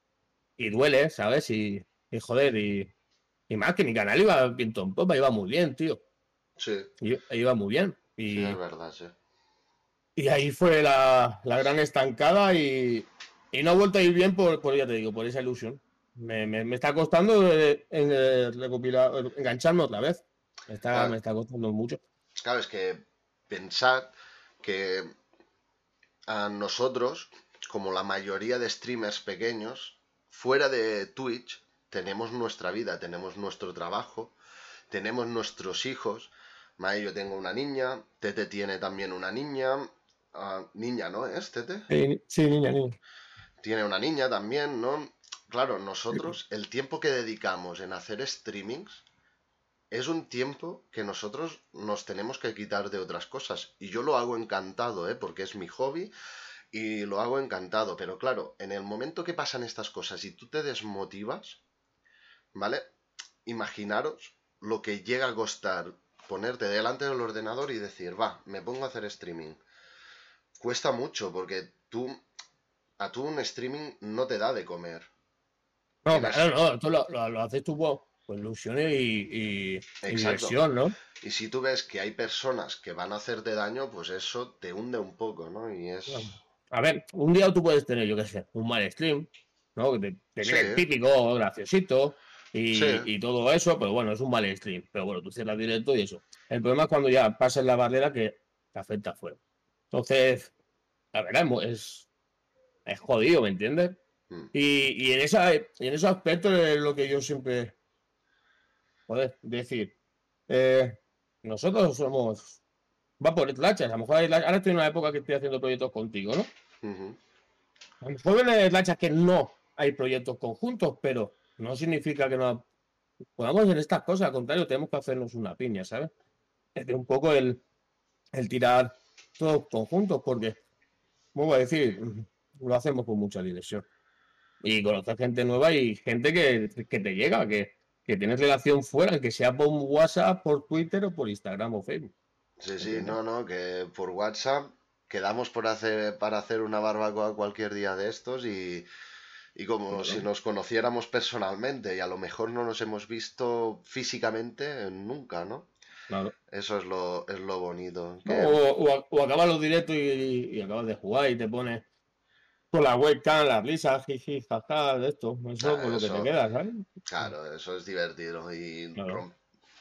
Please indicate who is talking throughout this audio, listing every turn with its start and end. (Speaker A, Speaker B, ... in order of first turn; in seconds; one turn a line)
Speaker A: 0.6-2.9
Speaker A: 3.5-6.0
Speaker B: 6.6-6.9
Speaker A: 7.0-8.6
Speaker B: 8.3-9.1
Speaker A: 10.2-22.0
Speaker B: 22.4-25.1
Speaker B: 26.3-34.3
Speaker B: 34.9-41.9
Speaker A: 41.9-43.0
Speaker B: 43.6-49.0
Speaker B: 49.9-56.1
Speaker B: 56.7-61.6
Speaker B: 62.5-62.9
Speaker B: 63.5-69.6
Speaker B: 70.6-72.2
Speaker B: 73.0-75.1
Speaker A: 76.0-81.0
Speaker B: 76.1-76.4
Speaker B: 80.0-80.6
Speaker B: 81.2-86.4
Speaker A: 86.1-99.4
Speaker B: 90.4-90.8
Speaker B: 92.7-93.1
Speaker A: 99.9-100.5
Speaker A: 101.1-102.1
Speaker A: 102.8-104.0
Speaker A: 104.5-107.8
Speaker A: 109.1-109.9
Speaker A: 110.5-112.6
Speaker A: 113.2-116.5
Speaker B: 116.8-117.2
Speaker A: 118.0-122.6
Speaker A: 123.4-126.1
Speaker A: 126.7-127.6
Speaker A: 128.3-130.6
Speaker A: 131.3-133.8
Speaker A: 134.6-142.1
Speaker B: 142.6-148.8
Speaker A: 142.8-143.2
Speaker B: 149.6-155.7
Speaker A: 149.9-150.2
Speaker B: 156.5-158.6
Speaker A: 158.2-161.8
Speaker A: 162.7-166.8
Speaker B: 165.6-166.3
Speaker B: 167.1-169.3
Speaker A: 169.0-169.2